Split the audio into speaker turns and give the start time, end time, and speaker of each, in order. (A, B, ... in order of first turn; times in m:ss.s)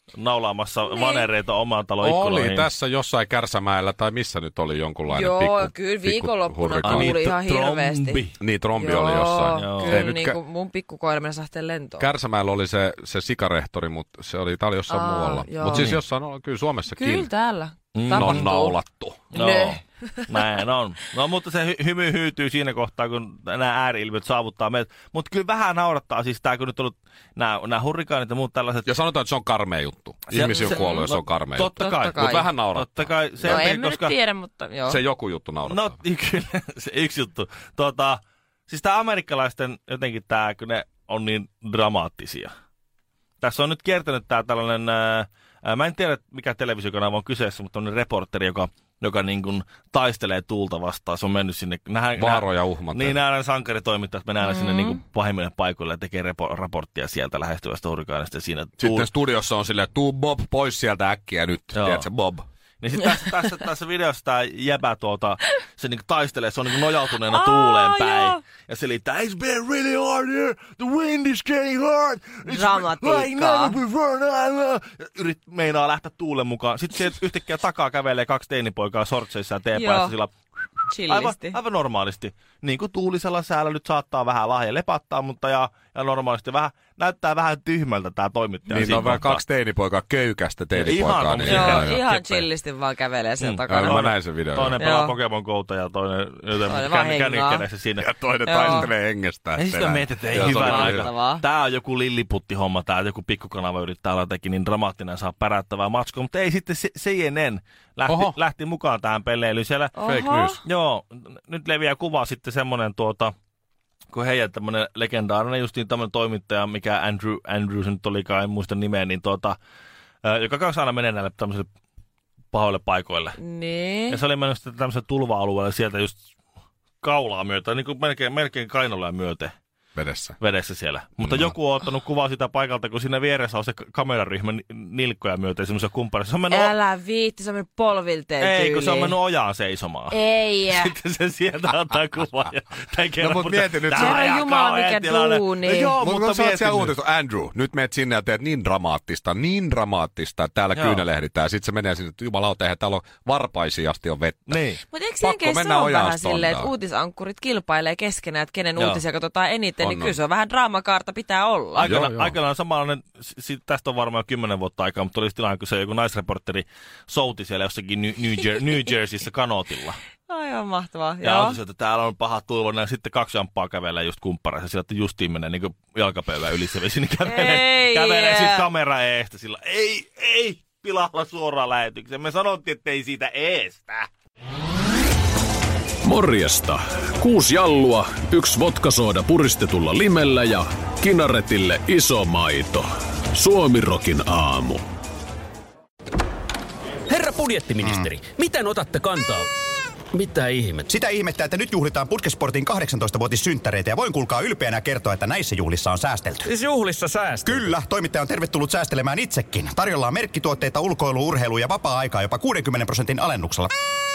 0:00.2-0:02.7 A
0:00.9-0:01.3 B
0:02.0-0:07.2 C
0:05.1-0:12.1 B
0:06.8-0:08.4 A
0:08.4-0:10.4 C
0:09.5-0:10.0 A
0:12.0-0:17.3 C
0:14.9-0:16.0 B
0:15.7-0:16.0 A
0:17.0-0:18.8 B
0:18.0-0:18.5 A
0:18.1-0:19.2 C
0:19.3-0:20.4 B
0:19.3-0:28.9 A
0:28.8-0:33.7 C
0:30.3-0:34.1 A
0:30.4-0:31.1 B
0:31.7-0:32.5 B
0:33.4-0:35.0 B
0:34.9-0:36.0 C
0:35.6-0:42.5 A
0:43.4-0:59.1 A
0:52.2-0:53.2 C
0:54.5-0:55.0 B
0:58.8-1:02.4 C
1:01.8-1:02.1 A
1:02.8-1:29.4 A
1:07.3-1:08.4 B
1:12.5-1:13.8 B
1:19.7-1:20.2 B
1:20.9-1:21.6 B
1:28.7-1:32.0 C
1:30.7-1:32.5 A
1:31.4-1:34.1 B
1:33.4-1:38.1 A
1:33.7-1:34.8 C
1:34.8-1:35.2 B
1:36.6-1:37.6 B
1:38.0-1:41.1 C
1:38.4-1:38.9 B
1:38.6-1:38.9 A
1:39.6-1:50.0 A
1:40.4-1:41.4 B
1:48.1-1:48.4 C
1:50.0-1:50.6 B
1:50.0-1:50.6 C
1:50.6-1:53.3 A
1:54.1-1:59.6 A
2:00.2-2:01.7 A
2:02.5-2:03.4 A
2:03.4-2:04.2 B
2:04.1-2:06.2 A
2:07.0-2:09.5 A
2:10.0-2:10.4 C
2:10.4-2:16.8 A
2:11.2-2:11.5 C
2:16.5-2:19.2 B
2:18.4-2:20.2 A
2:20.1-2:21.0 B
2:20.7-2:27.0 A
2:23.2-2:24.2 C
2:24.0-2:26.0 B
2:26.0-2:34.6 C
2:30.8-2:31.0 A
2:34.5-2:34.8 A
2:34.9-2:41.9 B
2:35.2-2:36.7 C
2:39.8-2:40.2 C
2:41.8-2:50.0 A
2:41.8-2:42.4 C
2:50.3-2:51.6 B
2:51.2-3:04.1 A
2:57.2-2:58.7 B
3:06.0-3:14.8 D
3:17.1-3:19.5 E
3:17.8-3:18.1 F
3:20.1-3:20.9 E
3:20.9-3:26.5 F
3:26.5-3:27.8 E
3:27.4-3:33.7 F